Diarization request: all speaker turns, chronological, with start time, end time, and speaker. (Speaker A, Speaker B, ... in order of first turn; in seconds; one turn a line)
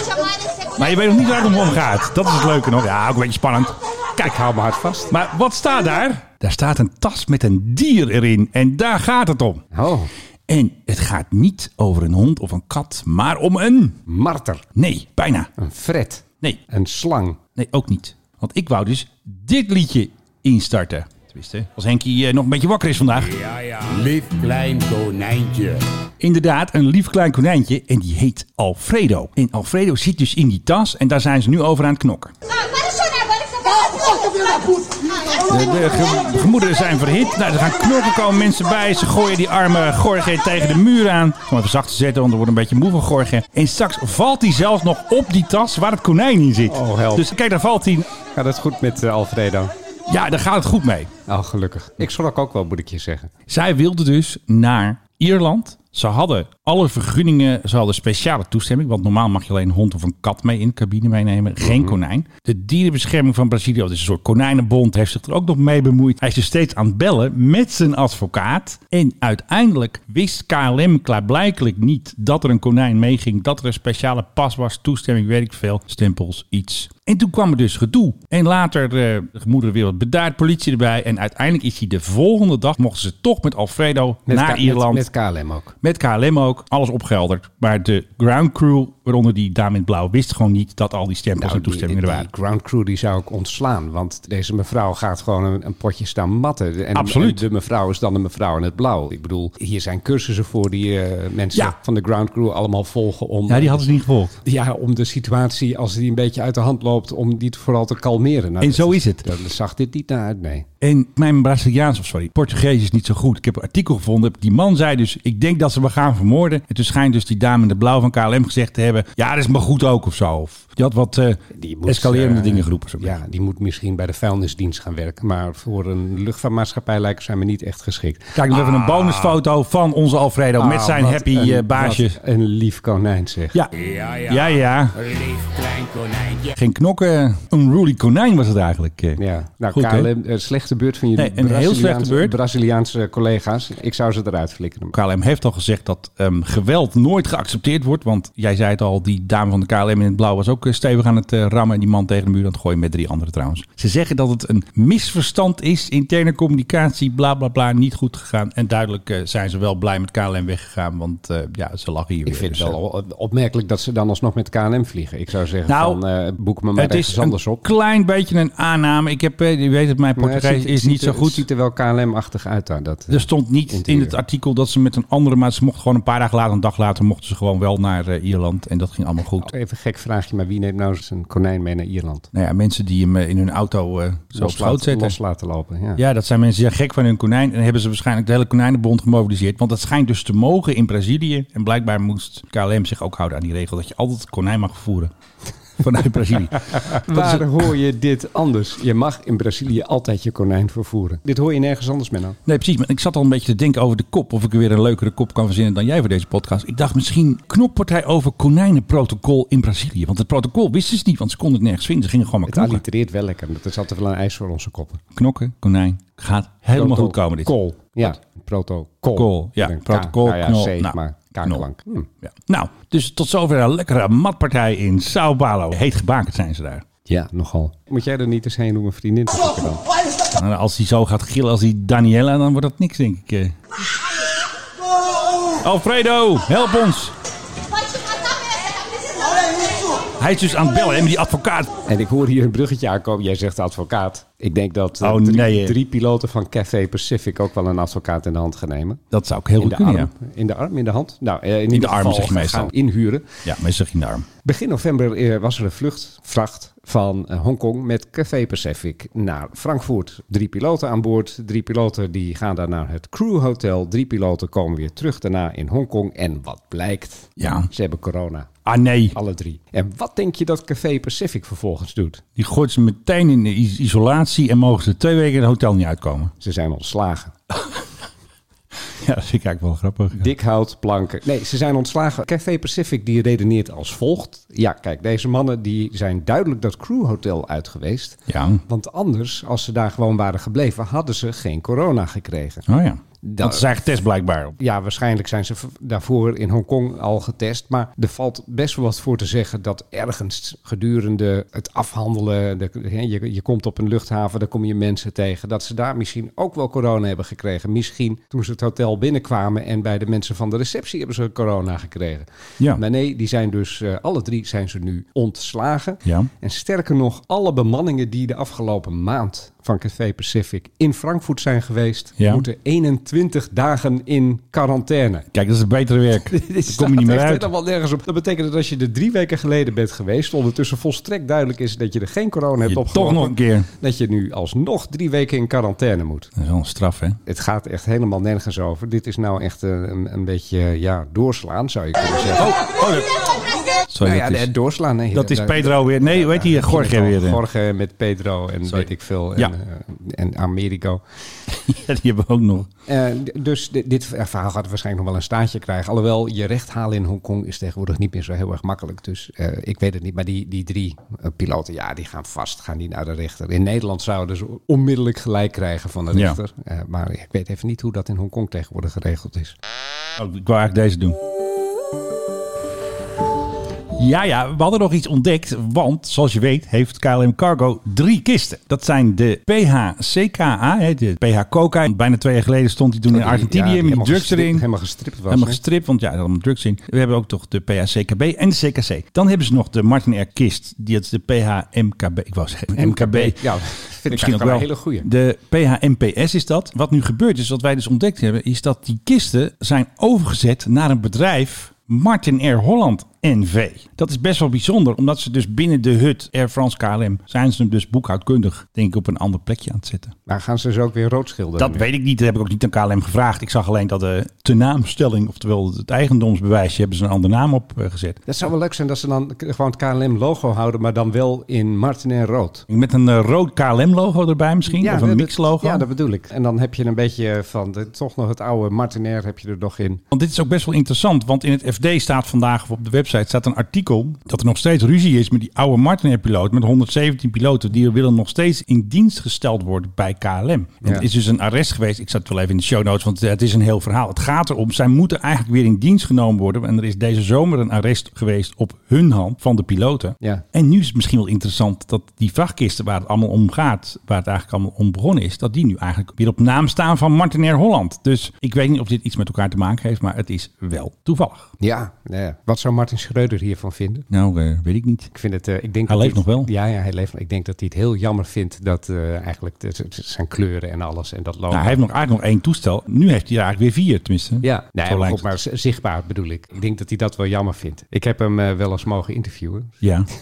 Speaker A: 0.7-3.8
Speaker B: 4.2-5.1
Speaker A: 5.1-9.6
Speaker B: 9.7-10.1
Speaker A: 10.5-14.0
Speaker B: 14.1-14.6
Speaker A: 14.8-15.5
Speaker B: 15.6-17.4
Speaker A: 17.6-23.3
Speaker C: 23.2-25.8
Speaker A: 26.2-32.3
Speaker A: 35.5-48.1
Speaker B: 46.7-47.3
Speaker B: 48.3-49.7
Speaker A: 50.1-51.1
Speaker B: 51.3-53.3
Speaker A: 53.5-85.1
Speaker B: 61.6-61.9
Speaker B: 84.3-85.8
Speaker A: 85.8-92.3
Speaker B: 91.4-103.9
Speaker A: 96.9-97.4
Speaker A: 103.5-104.3
Speaker B: 104.4-110.7
Speaker A: 108.6-109.2
Speaker A: 110.8-123.2
Speaker B: 121.5-128.4
Speaker A: 128.3-132.2
Speaker C: 128.7-129.3
Speaker B: 130.6-133.6
Speaker C: 133.7-136.5
Speaker A: 134.3-135.0
Speaker A: 136.6-139.2
Speaker B: 139.2-145.0
Speaker A: 139.7-140.1
Speaker A: 141.2-142.4
Speaker A: 144.9-162.8
Speaker B: 162.2-167.6
Speaker A: 165.7-166.0
Speaker A: 166.8-171.4
Speaker B: 170.2-174.2
Speaker A: 173.1-179.5
Speaker B: 179.4-182.3
Speaker A: 182.3-185.2
Speaker B: 184.4-186.0
Speaker A: 186.0-195.1
Speaker A: 195.8-197.6
Speaker B: 196.9-202.4
Speaker A: 202.5-212.8
Speaker B: 212.5-215.0
Speaker A: 215.1-217.5
Speaker B: 216.7-222.1
Speaker A: 219.1-221.6
Speaker A: 222.2-226.8
Speaker B: 227.1-229.8
Speaker A: 230.3-233.6
Speaker A: 235.6-237.1
Speaker A: 240.2-241.7
Speaker B: 241.9-249.0
Speaker A: 245.0-245.8
Speaker A: 249.1-250.1
Speaker B: 249.6-253.4
Speaker A: 251.7-252.7
Speaker A: 253.4-254.3
Speaker B: 254.4-268.5
Speaker A: 267.4-267.7
Speaker A: 268.6-269.1
Speaker B: 269.1-272.2
Speaker A: 272.4-276.3
Speaker B: 276.4-277.3
Speaker A: 277.5-277.8
Speaker A: 278.9-280.3
Speaker B: 280.2-292.6
Speaker A: 288.3-288.6
Speaker A: 292.7-294.6
Speaker B: 293.2-293.7
Speaker B: 294.6-325.3
Speaker A: 316.1-316.3
Speaker A: 322.2-322.5
Speaker A: 325.3-327.5
Speaker B: 326.2-336.3
Speaker A: 332.6-333.7
Speaker A: 336.4-337.2
Speaker B: 337.2-342.5
Speaker A: 342.4-343.1
Speaker A: 343.9-344.5
Speaker B: 344.0-351.0
Speaker A: 345.1-347.4
Speaker A: 348.7-349.5
Speaker A: 351.5-352.7
Speaker B: 352.9-369.6
Speaker A: 366.1-366.4
Speaker A: 370.2-371.2
Speaker A: 373.9-384.6
Speaker B: 383.1-385.6
Speaker A: 385.3-410.1
Speaker B: 392.8-395.1
Speaker B: 410.3-411.9
Speaker A: 411.6-418.2
Speaker B: 418.2-422.7
Speaker A: 422.7-425.9
Speaker B: 424.7-430.0
Speaker A: 430.1-461.5
Speaker B: 461.6-464.1
Speaker A: 464.1-465.1
Speaker B: 465.1-471.8
Speaker A: 465.9-466.5
Speaker A: 471.5-475.3
Speaker B: 474.4-479.8
Speaker A: 479.8-480.1